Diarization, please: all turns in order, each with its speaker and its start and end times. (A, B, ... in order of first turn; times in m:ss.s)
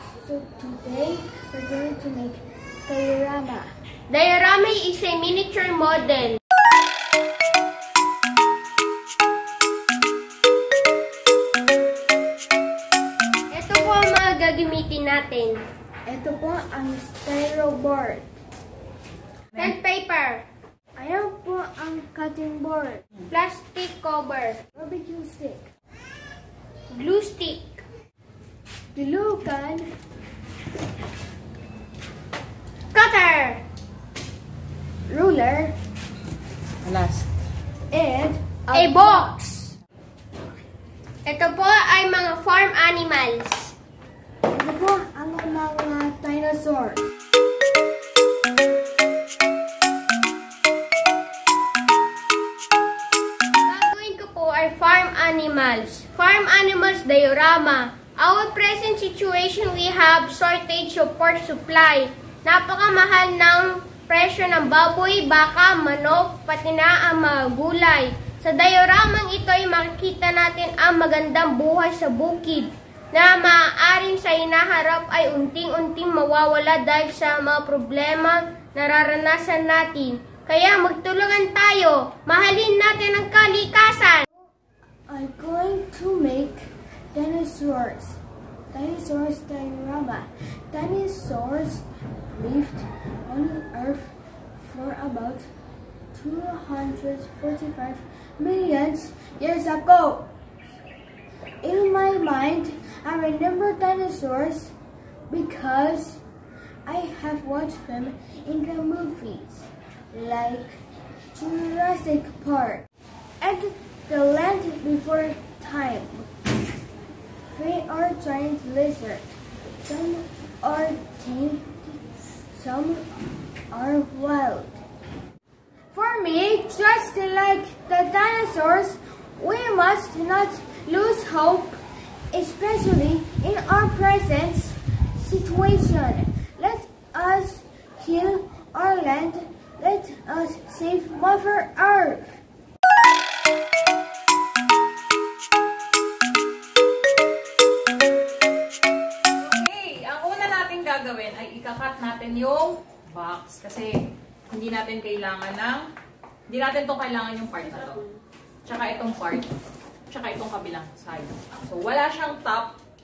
0:00.2-0:03.7 A
0:04.1-0:06.4 B
0:13.5-0:15.6 B
0:16.0-0:18.3 A
0:19.5-0:20.4 B
0:21.0-0:23.0 A
0:23.3-0:24.6 B
0:24.7-0:25.7 A
0:26.9-0:27.8 B
0:28.9-0:29.9 A
0:32.9-0:33.6 B
0:35.0-0:35.7 A
0:36.8-0:37.3 C
0:37.9-0:39.2 A
0:38.7-0:39.7 B
0:41.2-0:43.7 B
0:44.5-0:47.1 A
0:53.6-1:24.2 B
1:25.1-1:28.2 A
1:28.7-1:35.5 A
1:36.1-1:40.3 A
1:41.6-1:44.7 A
1:45.3-1:46.2 A
1:46.8-1:50.8 A
1:51.3-1:52.8 A
1:53.4-1:56.3 A
1:57.4-1:59.2 A
1:59.8-2:03.0 A
2:03.7-2:04.8 A
2:05.9-2:11.8 A
2:12.3-2:22.4 A
2:29.4-2:35.8 C
2:36.5-2:38.0 C
2:38.6-2:39.5 C
2:40.1-2:42.7 C